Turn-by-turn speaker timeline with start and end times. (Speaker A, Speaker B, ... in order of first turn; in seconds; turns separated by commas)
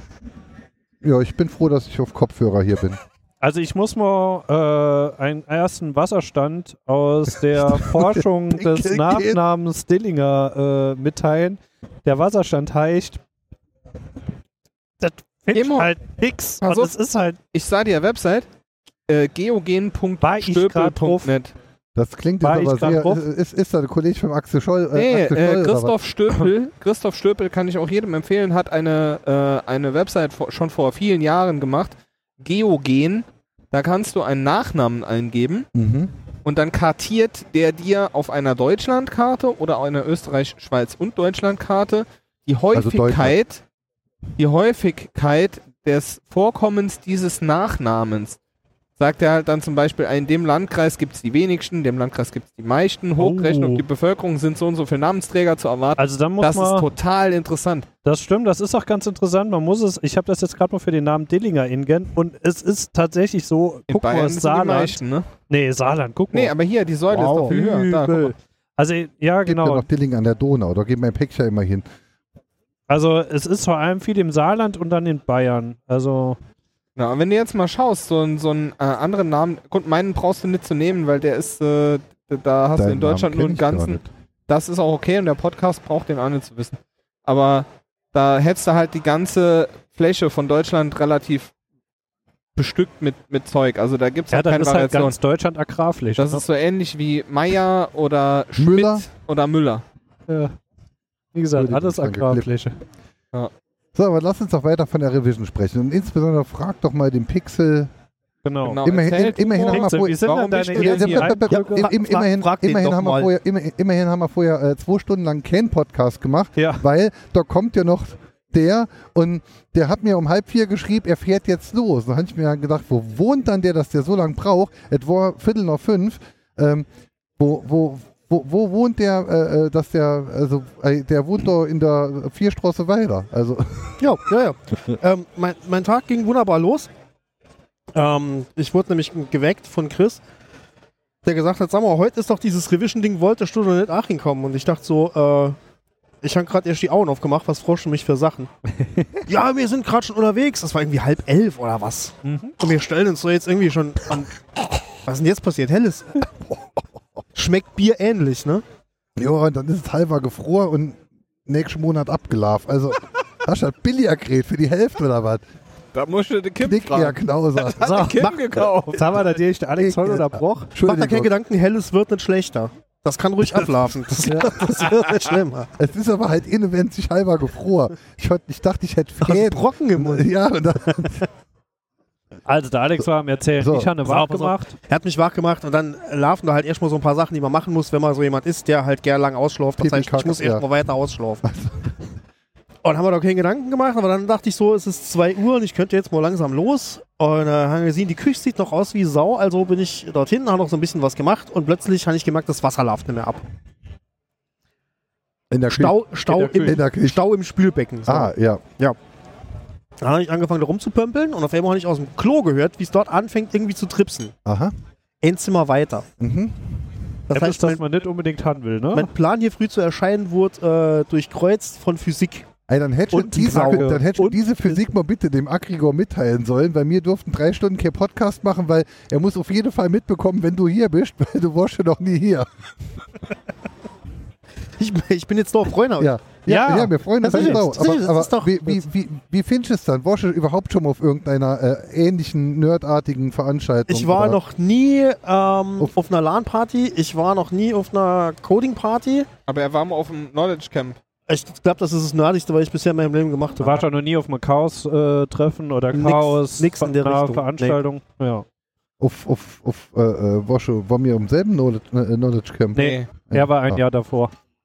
Speaker A: 1.0-3.0, Speaker B: 3.4-13.2, Speaker A: 7.6-9.4, Speaker B: 15.0-17.4, Speaker C: 15.5-15.9, Speaker C: 16.6-16.9, Speaker C: 17.5-18.4, Speaker C: 19.1-21.5, Speaker B: 20.2-21.3, Speaker A: 21.9-25.9, Speaker B: 22.4-23.2, Speaker C: 24.9-35.7, Speaker A: 35.7-36.1, Speaker C: 36.4-43.6, Speaker A: 42.7-43.4, Speaker C: 44.4-48.4, Speaker C: 49.0-57.9, Speaker B: 53.2-53.8, Speaker B: 56.0-56.9, Speaker B: 58.0-66.5, Speaker C: 63.9-65.3, Speaker C: 66.3-68.3, Speaker D: 67.1-67.5, Speaker B: 67.2-69.9, Speaker A: 69.5-71.9, Speaker B: 72.9-76.4, Speaker C: 77.0-91.5, Speaker A: 82.8-84.1, Speaker C: 92.5-95.2, Speaker B: 94.3-96.4, Speaker C: 96.2-99.8, Speaker A: 98.6-99.0, Speaker B: 100.3-100.5, Speaker B: 101.3-102.8, Speaker A: 101.5-102.5, Speaker A: 103.9-107.9, Speaker B: 108.4-108.8, Speaker C: 108.6-111.4, Speaker A: 108.8-110.2, Speaker B: 109.7-111.9, Speaker A: 110.7-126.9, Speaker D: 111.5-113.3, Speaker B: 116.5-116.8, Speaker A: 127.4-134.0, Speaker D: 134.0-136.9, Speaker D: 137.9-140.2, Speaker D: 141.2-145.6, Speaker D: 146.2-148.5, Speaker B: 148.8-149.2, Speaker D: 149.2-154.3, Speaker B: 152.2-152.6, Speaker D: 154.9-156.2, Speaker D: 157.3-158.6, Speaker A: 159.2-165.4, Speaker C: 165.9-169.1, Speaker A: 166.6-167.8, Speaker B: 167.8-168.3, Speaker D: 168.2-168.7, Speaker B: 168.8-170.8, Speaker A: 169.8-171.3, Speaker D: 170.8-175.7, Speaker B: 174.2-174.6, Speaker A: 175.8-181.3, Speaker D: 179.2-180.3, Speaker D: 180.8-181.1, Speaker B: 182.4-184.8, Speaker A: 183.6-184.0, Speaker D: 184.0-191.4, Speaker A: 189.8-190.6, Speaker A: 191.4-191.8, Speaker D: 192.8-203.4, Speaker A: 205.5-207.2, Speaker D: 205.7-209.0, Speaker B: 206.3-206.8, Speaker A: 208.1-208.6, Speaker D: 210.0-214.3, Speaker A: 214.4-214.7, Speaker D: 215.2-216.1, Speaker A: 216.2-216.8, Speaker D: 217.3-217.8, Speaker B: 217.3-219.1, Speaker D: 218.9-222.5, Speaker A: 222.7-232.5, Speaker B: 223.1-224.8, Speaker D: 223.4-224.0, Speaker D: 234.8-238.9, Speaker A: 236.0-244.4, Speaker B: 236.5-237.6, Speaker D: 243.9-249.3, Speaker C: 249.5-251.0, Speaker D: 251.3-253.8, Speaker B: 253.6-258.4, Speaker D: 255.9-257.8, Speaker A: 259.0-263.8, Speaker C: 262.7-263.1, Speaker B: 262.7-264.3